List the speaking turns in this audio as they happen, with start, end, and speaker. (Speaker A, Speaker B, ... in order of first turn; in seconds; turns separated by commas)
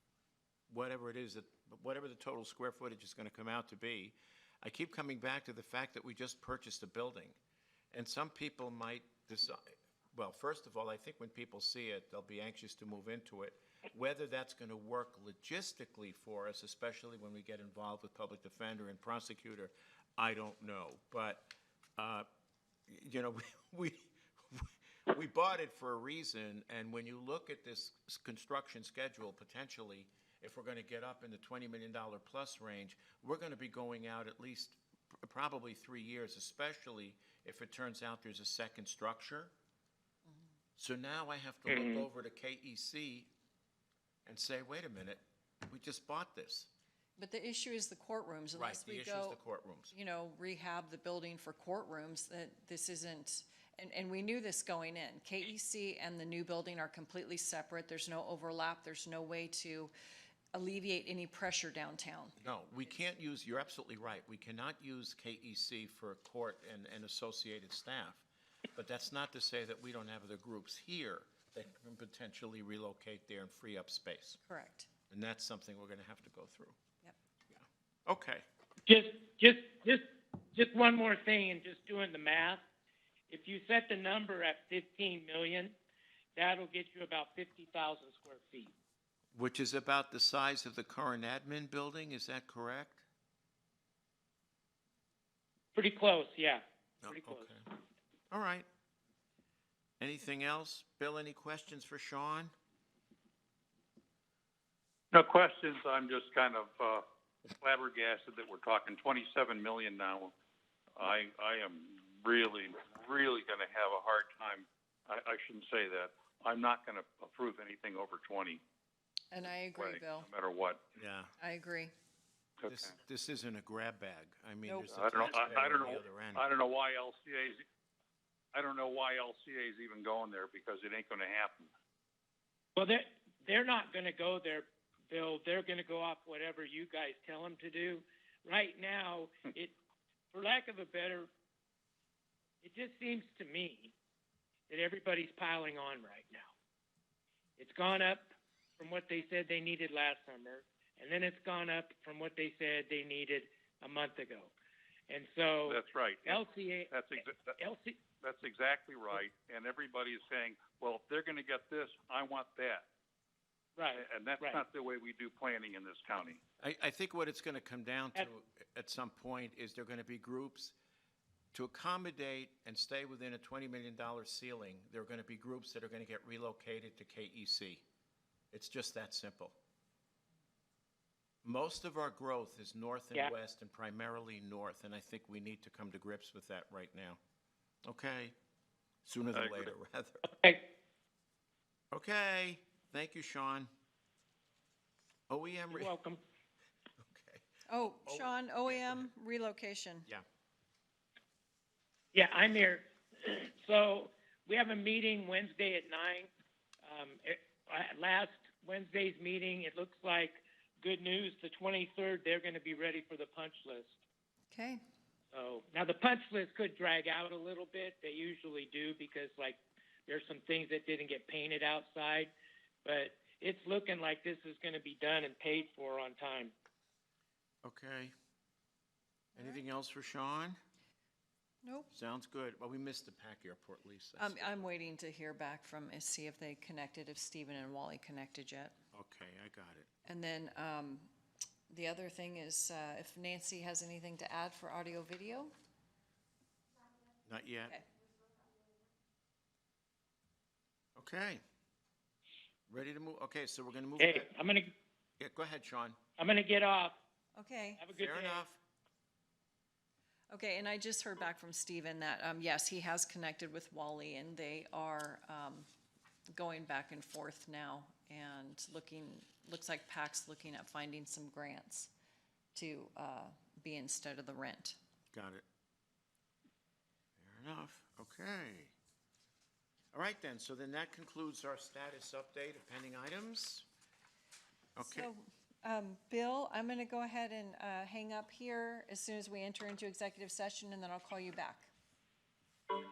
Speaker A: 0.7-7.4, Speaker A: 7.9-9.6, Speaker A: 10.1-22.3, Speaker A: 22.9-39.5, Speaker A: 40.8-43.3, Speaker A: 44.3-46.7, Speaker B: 47.2-49.4, Speaker A: 48.6-49.9, Speaker B: 49.9-59.9, Speaker B: 60.5-62.4, Speaker A: 62.4-74.4, Speaker B: 74.5-74.9, Speaker A: 75.1-76.8, Speaker A: 77.5-78.4, Speaker C: 78.9-82.6, Speaker C: 83.3-85.8, Speaker C: 86.4-88.7, Speaker A: 89.3-93.0, Speaker C: 95.8-97.5, Speaker A: 97.0-97.6, Speaker A: 98.3-98.7, Speaker A: 100.0-102.5, Speaker D: 105.1-107.0, Speaker D: 107.6-110.3, Speaker D: 111.0-118.6, Speaker B: 119.3-120.3, Speaker D: 119.8-120.8, Speaker A: 121.0-121.3, Speaker B: 121.4-121.9, Speaker A: 122.7-126.5, Speaker B: 124.7-125.3, Speaker D: 124.9-127.6, Speaker D: 128.5-131.7, Speaker C: 132.8-139.8, Speaker C: 140.3-141.3, Speaker C: 142.6-143.9, Speaker C: 144.7-146.5, Speaker C: 147.6-154.5, Speaker C: 155.1-158.0, Speaker D: 155.7-157.6, Speaker D: 158.2-162.8, Speaker C: 163.8-164.6, Speaker D: 163.9-166.4, Speaker A: 166.6-170.8, Speaker A: 171.5-177.8, Speaker A: 178.5-179.6, Speaker A: 181.4-187.2, Speaker A: 187.9-188.3, Speaker A: 189.1-190.3, Speaker D: 189.3-189.7, Speaker C: 190.3-190.7, Speaker A: 191.9-193.7, Speaker A: 195.3-195.9, Speaker C: 195.7-196.2, Speaker A: 197.0-199.1, Speaker B: 197.7-200.1, Speaker C: 202.1-206.3, Speaker C: 206.8-214.0, Speaker B: 214.5-214.8, Speaker C: 215.3-222.3, Speaker C: 222.8-226.5, Speaker A: 227.6-228.1, Speaker A: 229.3-230.6, Speaker B: 231.6-231.9, Speaker A: 231.9-234.7, Speaker B: 234.2-238.8, Speaker A: 238.9-239.9, Speaker B: 240.1-241.1, Speaker B: 241.7-245.5, Speaker A: 247.3-247.8, Speaker A: 251.0-251.4, Speaker A: 252.7-254.3, Speaker C: 254.0-254.7, Speaker A: 255.2-256.0, Speaker C: 256.2-257.0, Speaker B: 257.4-257.8, Speaker C: 257.8-258.4, Speaker A: 257.9-258.6, Speaker B: 260.3-265.7, Speaker B: 266.3-271.9, Speaker B: 272.6-274.8, Speaker A: 275.1-275.4, Speaker A: 277.2-278.8, Speaker A: 279.9-283.7, Speaker A: 284.8-285.1, Speaker B: 284.8-291.7